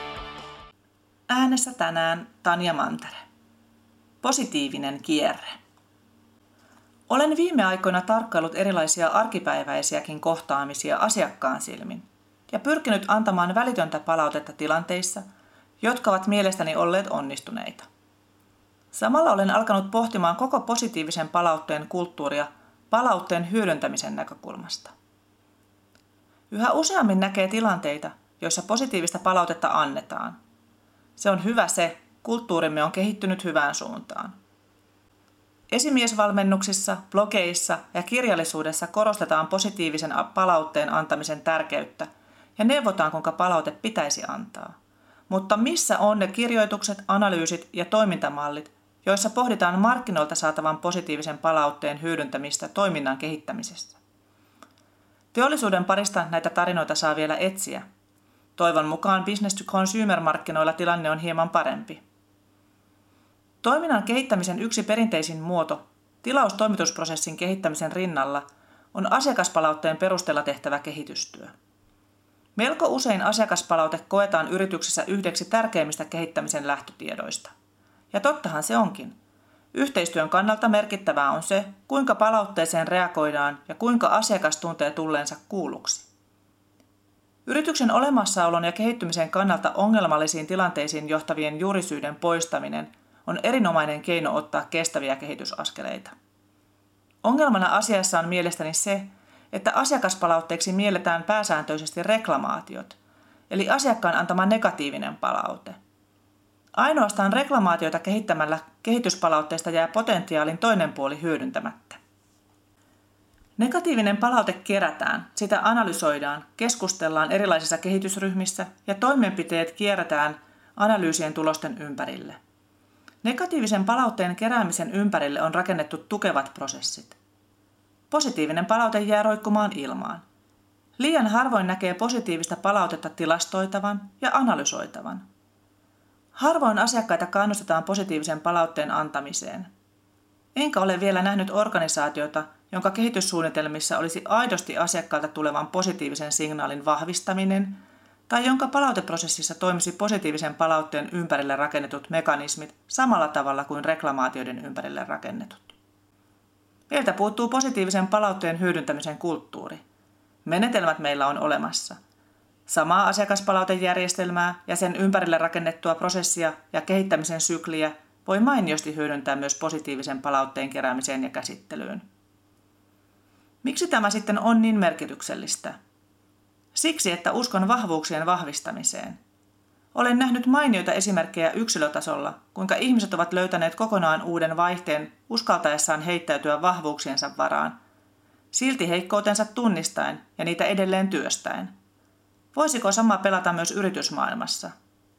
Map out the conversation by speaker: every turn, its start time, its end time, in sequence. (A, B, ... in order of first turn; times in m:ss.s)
0:01.3-0:03.2 A
0:04.2-0:05.6 A
0:07.1-0:15.2 A
0:15.8-0:17.9 A
0:18.9-0:24.9 A
0:26.5-0:30.4 A
0:31.2-0:34.4 A
0:35.7-0:44.8 A
0:45.3-0:54.0 A
0:55.3-0:57.8 A
0:58.6-1:02.0 A
1:03.6-1:11.5 A
1:12.6-1:17.5 A
1:18.1-1:19.2 A
1:19.7-1:26.1 A
1:27.5-1:36.1 A
1:37.2-1:43.0 A
1:43.5-1:45.8 A
1:46.7-1:52.0 A
1:53.6-2:02.4 A
2:03.2-2:07.2 A
2:08.1-2:10.2 A
2:11.0-2:15.2 A
2:16.4-2:19.7 A
2:20.6-2:35.8 A
2:36.9-2:39.8 A
2:40.4-2:42.0 A
2:42.7-2:52.1 A
2:53.6-2:55.8 A
2:56.7-2:59.2 A
2:59.9-3:07.8 A
3:08.5-3:11.8 A
3:12.5-3:14.7 A